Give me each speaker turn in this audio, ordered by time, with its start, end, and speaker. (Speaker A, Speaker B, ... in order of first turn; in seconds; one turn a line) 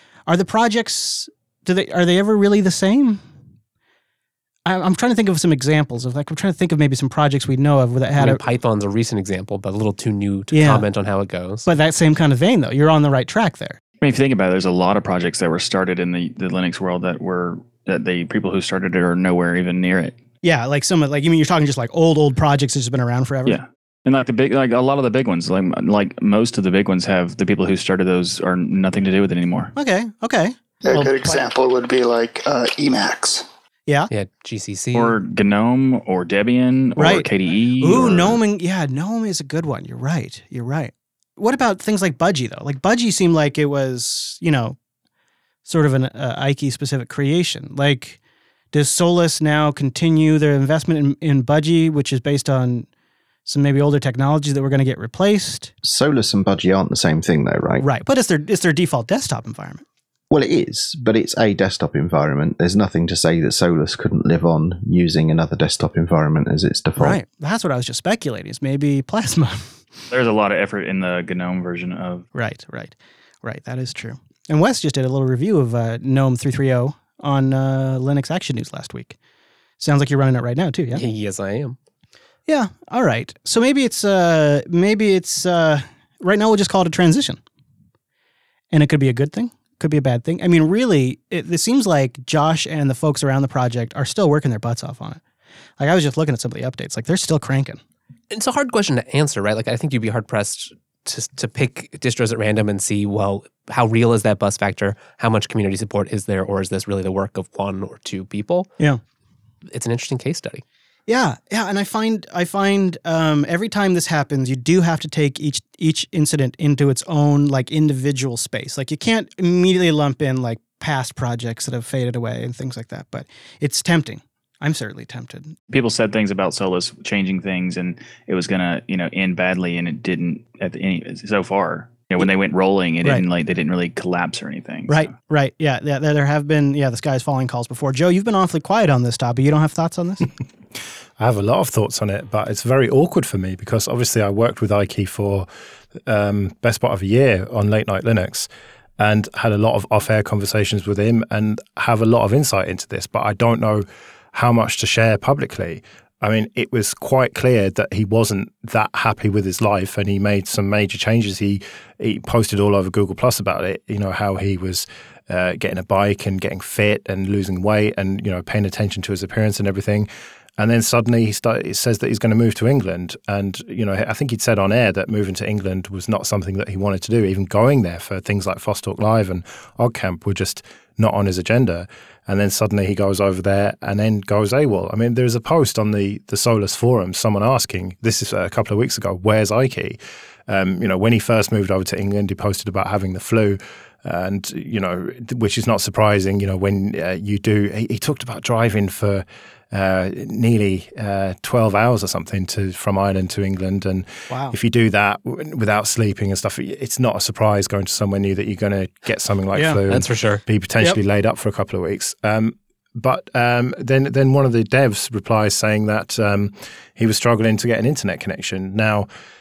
Speaker A: 0.3-3.2
Speaker A: 4.7-8.4
Speaker B: 8.2-11.7
Speaker A: 10.5-10.8
Speaker A: 11.7-13.8
Speaker C: 14.0-20.2
Speaker A: 20.4-23.6
Speaker C: 23.5-29.7
Speaker A: 29.8-31.3
Speaker D: 30.9-33.4
Speaker B: 34.1-35.2
Speaker C: 34.9-38.4
Speaker A: 37.0-37.3
Speaker A: 37.8-44.8
Speaker A: 45.7-48.2
Speaker A: 48.7-52.9
Speaker A: 53.5-55.7
Speaker E: 55.8-57.8
Speaker A: 57.8-59.8
Speaker E: 60.3-67.2
Speaker A: 67.0-69.7
Speaker C: 70.1-72.2
Speaker A: 72.3-79.2
Speaker A: 79.8-81.0
Speaker B: 80.9-81.8
Speaker A: 82.5-87.4
Speaker A: 88.7-95.2
Speaker A: 95.8-97.8
Speaker B: 98.3-108.7
Speaker B: 109.7-110.6
Speaker A: 111.1-125.6
Speaker C: 125.7-135.1
Speaker A: 134.9-140.3
Speaker F: 141.2-145.5
Speaker F: 146.1-219.1
Speaker A: 204.3-204.6
Speaker A: 209.5-209.8
Speaker B: 209.9-210.4